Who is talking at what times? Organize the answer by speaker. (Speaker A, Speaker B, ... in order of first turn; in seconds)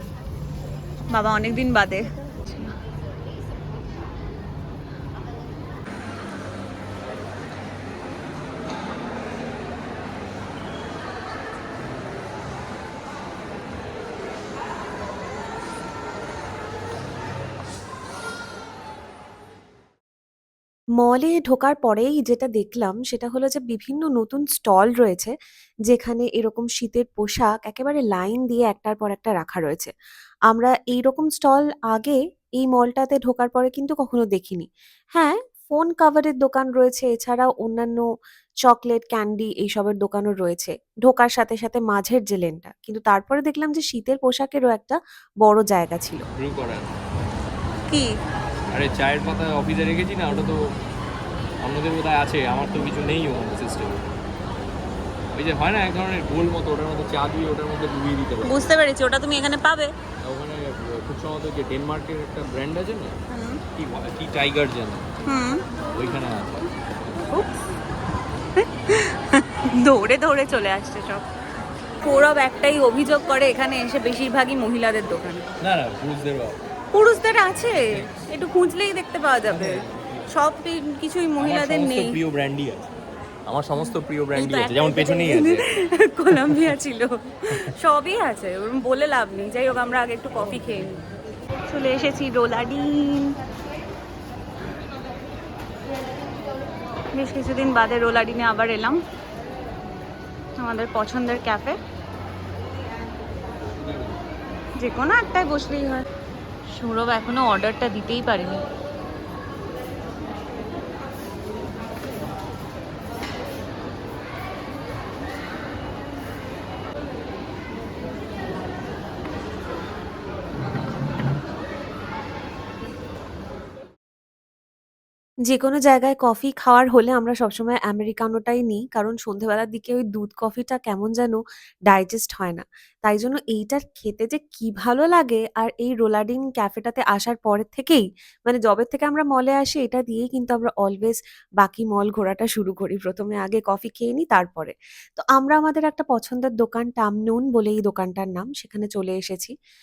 Speaker A: 1.1-2.7, 58.4-59.9, 63.3-63.6, 65.2-65.6, 68.6-71.3, 72.0-75.5, 76.9-82.1, 83.8-91.0, 91.7-93.4, 97.1-99.0, 100.6-101.8, 104.8-106.0, 106.7-108.6
Speaker B: 21.0-25.3, 25.9-29.9, 30.5-38.0, 38.6-46.2, 125.5-149.5
Speaker C: 46.4-46.9, 48.7-50.6, 51.6-54.1, 55.3-58.6, 60.2-63.2, 63.8-65.1, 65.9-66.7, 75.6-76.6, 79.5-80.3, 81.4-82.8, 83.5-85.7, 86.3-86.6, 103.8-104.2